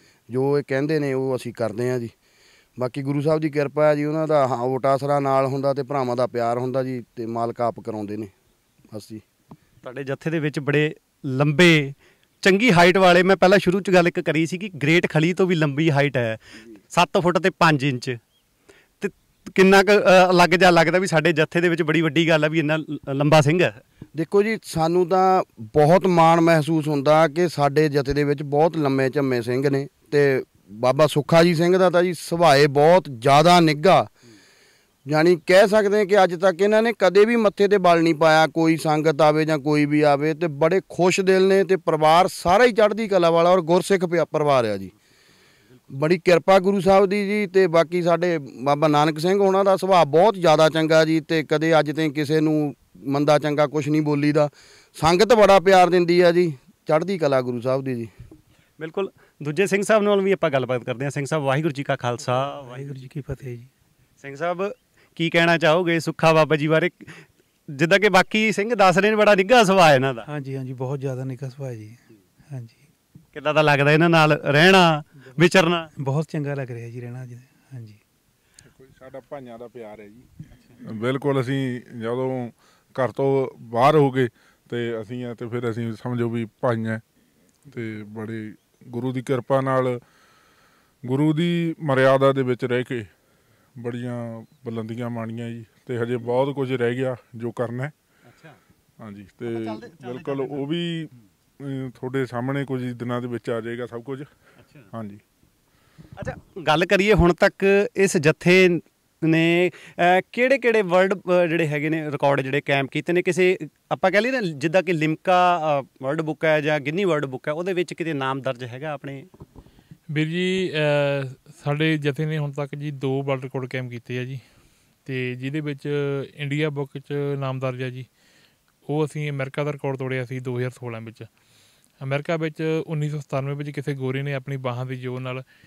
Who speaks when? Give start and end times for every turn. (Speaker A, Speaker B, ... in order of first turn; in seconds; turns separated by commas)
Speaker A: 0.3-2.1, Speaker A: 2.8-8.3, Speaker A: 8.9-9.2, Speaker B: 9.8-18.2, Speaker B: 19.0-23.8, Speaker A: 24.1-34.1, Speaker A: 35.1-44.9, Speaker A: 45.9-58.1, Speaker B: 58.8-63.1, Speaker C: 62.4-63.7, Speaker B: 64.2-70.3, Speaker C: 70.3-72.8, Speaker B: 73.3-75.9, Speaker C: 76.0-78.0, Speaker D: 78.8-80.3, Speaker D: 80.8-87.0, Speaker D: 87.7-90.0, Speaker D: 91.0-93.1, Speaker D: 93.8-97.9, Speaker B: 98.2-98.6, Speaker D: 99.0-104.3, Speaker B: 99.5-100.7, Speaker B: 104.6-104.9, Speaker D: 104.9-105.2, Speaker B: 106.2-119.3, Speaker E: 120.1-124.4, Speaker E: 125.1-128.1, Speaker E: 128.9-131.3, Speaker E: 132.0-135.4